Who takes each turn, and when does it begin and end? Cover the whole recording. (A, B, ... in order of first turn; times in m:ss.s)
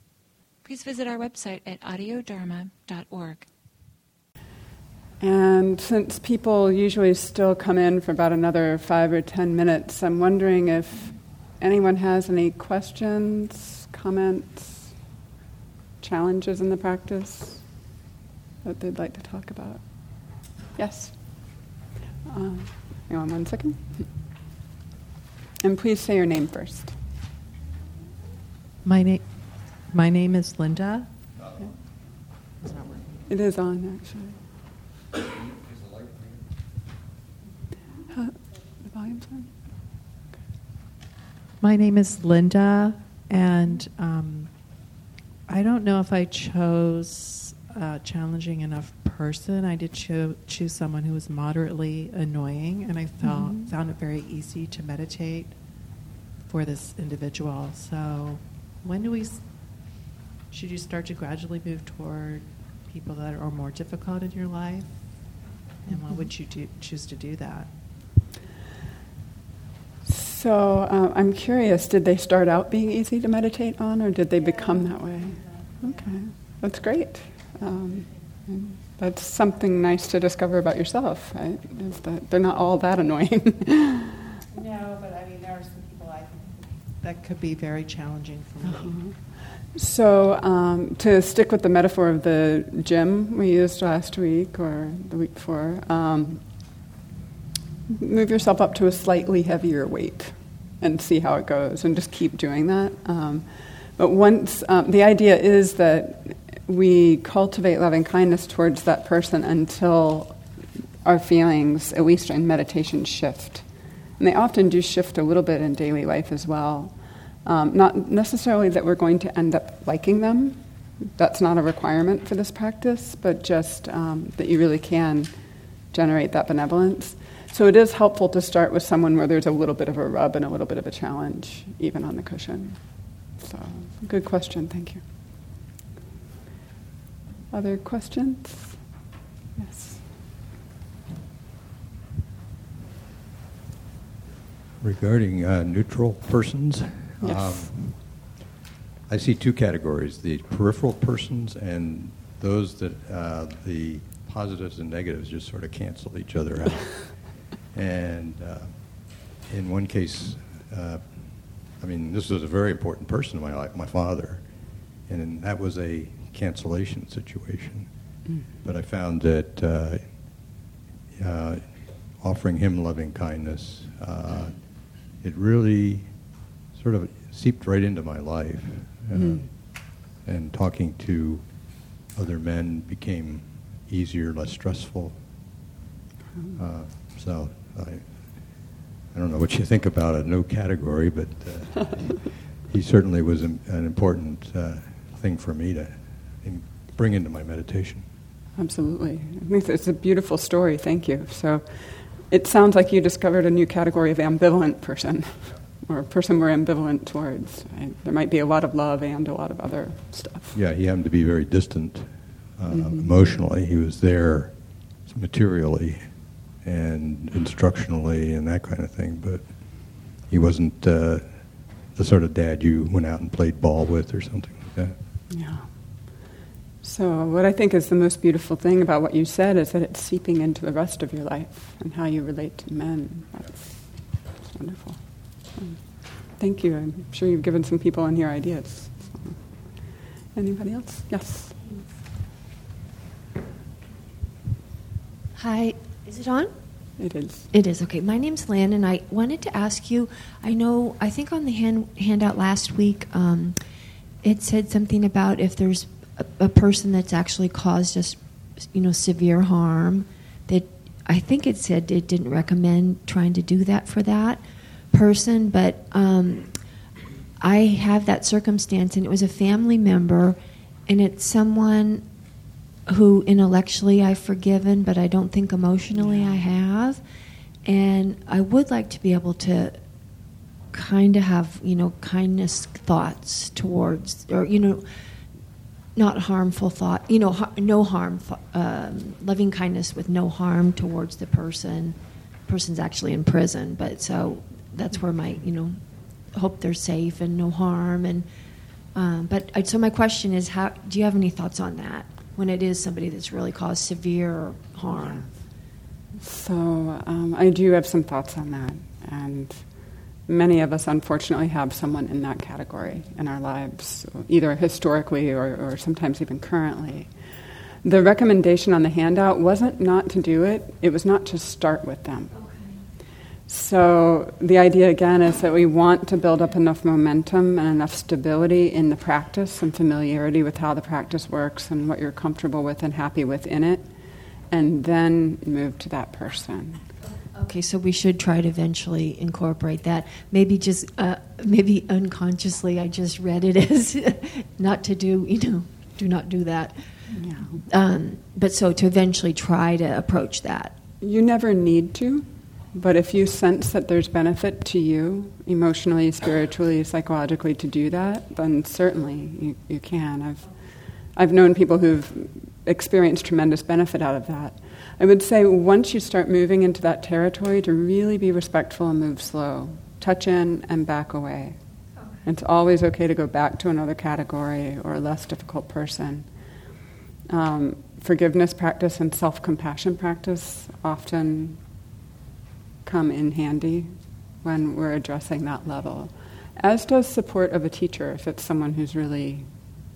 0:00.6-0:03.5 A
0:05.2-0:15.0 B
0:16.0-0:17.7 B
0:18.6-0:24.2 B
0:25.6-0:27.0 B
0:28.8-0:31.1 C
0:33.3-0:34.4 B
0:38.1-0:39.7 B
0:41.6-1:07.7 C
0:53.2-0:53.7 B
1:10.0-1:24.3 B
1:24.7-1:26.2 C
1:26.9-1:29.0 C
1:28.6-1:36.7 B
1:37.9-1:50.4 B
1:51.0-2:15.0 B
2:17.5-2:18.8 B
2:19.6-2:20.1 B
2:24.8-2:28.1 D
2:27.2-2:28.0 B
2:29.1-3:05.2 D
2:59.1-2:59.5 B
3:06.5-3:18.1 D
3:18.6-3:30.6 B
3:30.5-3:45.0 D
3:32.7-3:33.2 B
3:45.3-3:46.3 B
3:46.8-4:01.7 B
4:05.3-4:13.6 E
4:07.0-4:07.5 B
4:14.2-4:26.9 E
4:27.4-4:32.2 E
4:32.8-4:37.0 E
4:36.0-4:36.4 B
4:37.6-4:44.9 E
4:45.9-4:58.3 E
4:58.9-5:05.3 E
5:05.0-5:05.4 B
5:06.1-5:22.3 B
5:22.4-5:22.8 A
5:23.4-5:36.8 B
5:37.3-5:50.7 E
5:47.1-5:47.6 B
5:51.0-6:11.6 B
6:12.2-6:16.3 B
6:17.3-6:21.6 B
6:22.8-6:29.5 B